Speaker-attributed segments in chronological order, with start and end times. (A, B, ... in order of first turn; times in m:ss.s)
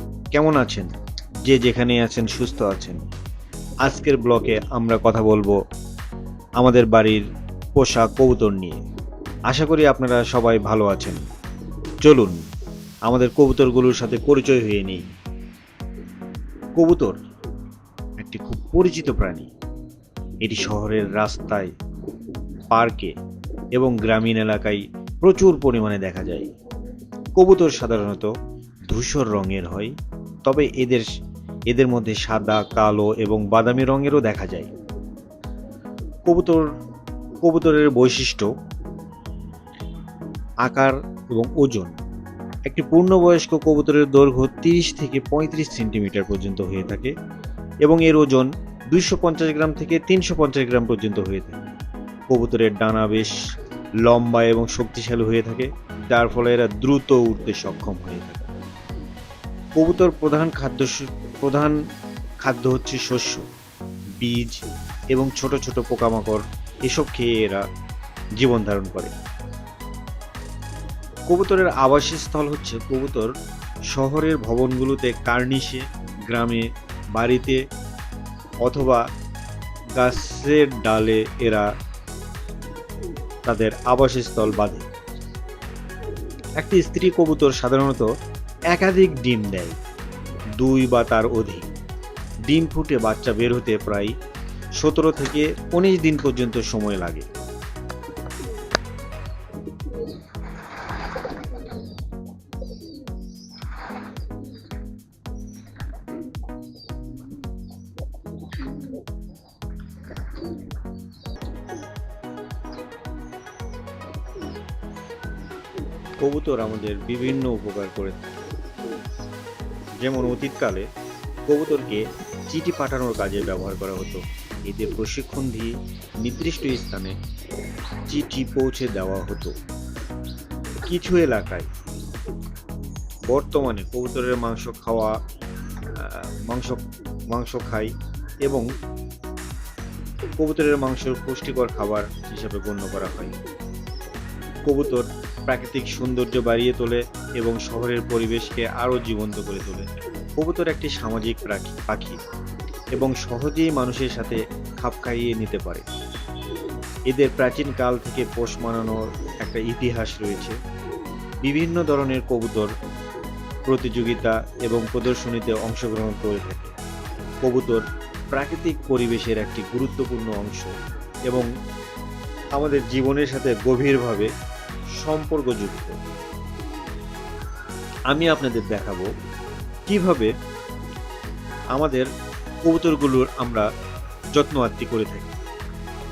0:00.3-0:00.9 A
0:01.4-0:03.0 A
0:03.8-0:05.6 A
0:06.6-0:07.2 A
0:07.8-0:08.8 A
0:09.5-0:11.2 A
0:12.0-0:12.4 A
0:13.1-0:15.0 A
0:16.8-0:17.2 A
0:18.2-0:19.5 A
0:20.4-0:21.7 A
0:22.7-0:23.1 A
0:23.7-0:26.5 A
0:27.4-0:28.3 A
0:28.9-0:29.9 A
0:30.4-0:31.1 A
0:31.7-0:34.7 A
0:36.2-0:36.7 A
0:37.4-0:38.5 A
0:40.6-0:42.0 A
0:42.7-0:47.1 A
0:47.8-0:51.6 A
0:52.3-0:53.4 A
0:54.0-0:58.5 A
0:59.8-1:01.8 A
1:02.4-1:03.4 A
1:04.2-1:04.6 A
1:05.1-1:07.6 A
1:08.4-1:09.1 A
1:11.3-1:13.3 A
1:13.9-1:17.6 A
1:18.6-1:19.0 A
1:20.0-1:21.7 A
1:23.4-1:24.9 A
1:26.6-1:28.1 A
1:28.7-1:29.8 A
1:30.6-1:31.7 A
1:32.5-1:34.1 A
1:34.8-1:37.3 A
1:56.2-1:58.4 A
2:00.0-2:00.9 A
2:01.5-2:07.1 A
2:08.1-2:09.5 A
2:10.8-2:11.7 A
2:13.3-2:15.2 A
2:15.9-2:17.9 A
2:20.4-2:23.3 A
2:24.6-2:32.2 A
2:32.9-2:35.8 A
2:37.1-2:40.6 A
2:41.4-2:42.7 A
2:43.7-2:46.7 A
2:47.4-2:50.7 A
2:52.5-2:54.3 A
2:55.0-2:55.9 A
2:58.1-2:59.1 A
2:59.9-3:00.3 A
3:01.7-3:02.1 A
3:02.6-3:03.7 A
3:04.4-3:05.4 A